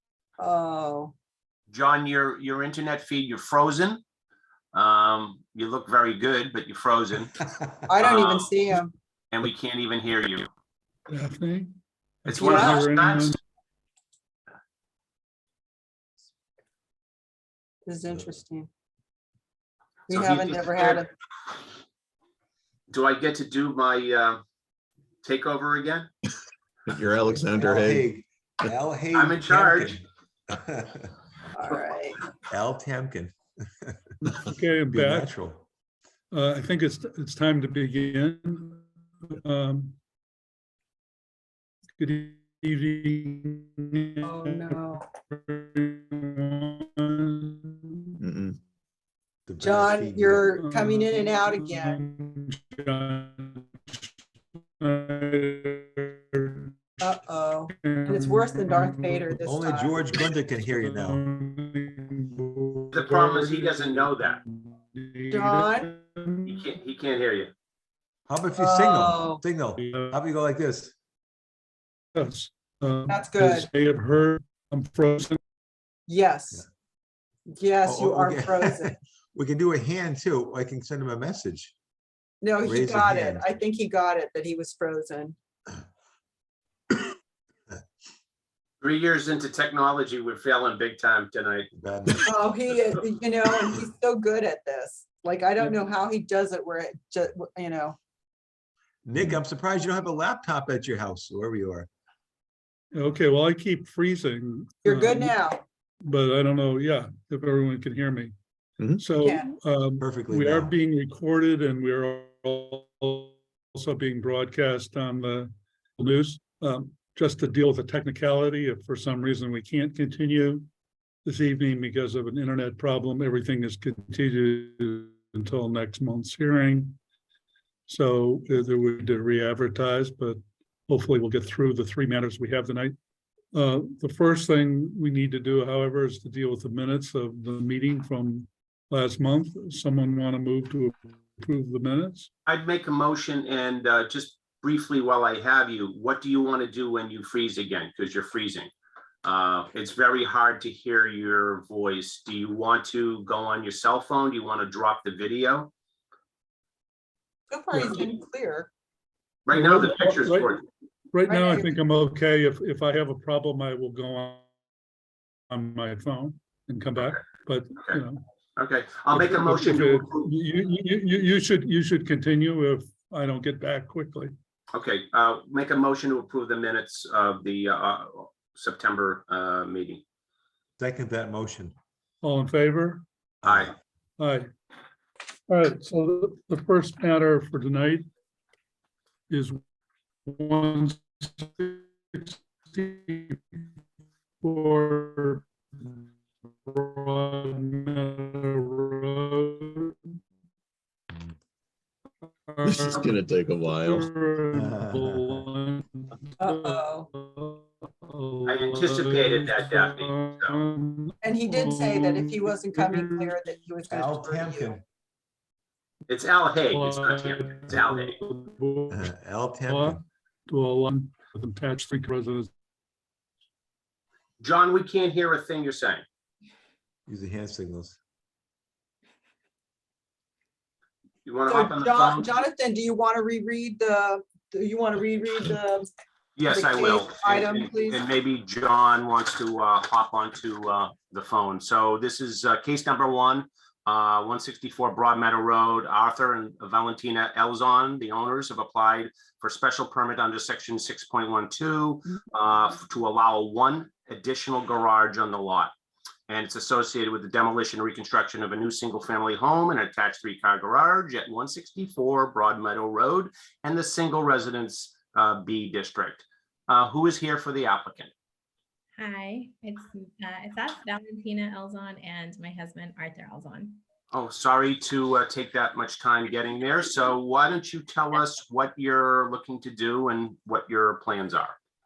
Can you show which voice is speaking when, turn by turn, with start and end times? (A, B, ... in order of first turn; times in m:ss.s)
0:00.4-0:01.1 A
0:01.7-0:04.0 B
0:04.7-0:07.4 B
0:07.9-0:08.9 A
0:08.0-0:08.6 B
0:09.3-0:10.5 B
0:11.1-0:13.4 C
0:12.2-0:13.4 B
0:12.4-0:12.8 A
0:17.8-0:18.7 A
0:20.1-0:21.0 A
0:20.1-0:21.0 B
0:22.9-0:24.4 B
0:25.2-0:26.1 B
0:26.9-0:28.1 D
0:27.5-0:31.1 E
0:29.1-0:30.0 B
0:31.5-0:32.2 A
0:32.5-0:34.0 E
0:34.4-0:35.3 C
0:34.9-0:35.6 E
0:36.3-0:40.0 C
0:42.0-0:48.1 C
0:44.2-0:45.0 A
0:48.2-0:48.6 D
0:49.5-0:50.5 E
0:49.6-0:52.0 A
0:50.5-0:54.1 C
0:54.8-0:57.0 C
0:57.0-1:00.1 A
0:57.7-0:59.4 C
0:59.4-1:01.2 E
1:00.6-1:06.6 C
1:02.9-1:04.4 B
1:05.3-1:05.9 A
1:06.4-1:07.5 B
1:08.3-1:10.9 E
1:08.6-1:09.4 A
1:09.8-1:10.2 C
1:12.1-1:15.4 C
1:13.1-1:13.7 A
1:16.1-1:16.6 A
1:17.5-1:18.9 A
1:17.8-1:21.7 E
1:22.4-1:25.3 A
1:22.6-1:23.4 E
1:28.8-1:31.7 B
1:31.7-1:32.3 E
1:32.2-1:38.0 A
1:39.0-1:41.9 E
1:42.9-1:45.4 C
1:44.8-1:45.6 A
1:46.0-1:48.3 C
1:48.9-2:00.7 C
1:49.2-1:49.5 A
1:50.0-1:50.7 E
2:01.2-2:07.0 C
2:07.9-2:12.9 C
2:13.5-2:22.3 C
2:22.5-2:28.7 B
2:29.2-2:35.7 B
2:37.5-2:38.7 A
2:37.7-2:38.1 C
2:39.4-2:40.6 B
2:39.5-2:40.6 C
2:41.1-2:44.5 C
2:41.2-2:41.7 A
2:45.5-2:48.2 C
2:48.6-2:50.3 B
2:49.1-2:54.3 C
2:54.7-3:00.0 B
3:00.8-3:01.7 E
3:02.2-3:03.0 C
3:03.4-3:03.7 E
3:03.4-3:03.7 B
3:04.2-3:04.5 C
3:05.5-3:08.1 C
3:09.3-3:09.6 C
3:10.2-3:13.6 C
3:14.4-3:16.0 C
3:16.6-3:20.2 C
3:22.2-3:33.6 C
3:22.6-3:24.1 D
3:24.5-3:25.4 E
3:26.4-3:27.1 A
3:28.4-3:30.6 B
3:31.2-3:34.8 A
3:33.9-3:34.8 E
3:36.1-3:38.2 B
3:36.7-3:39.1 C
3:38.9-3:40.0 E
3:39.6-3:42.5 C
3:44.4-3:46.0 B
3:47.1-3:48.0 E
3:51.2-3:52.3 B
3:51.5-3:55.9 A
3:56.4-4:15.7 B
3:56.5-3:58.0 A
4:16.3-4:28.1 B
4:29.0-4:33.8 F
4:34.1-4:41.6 B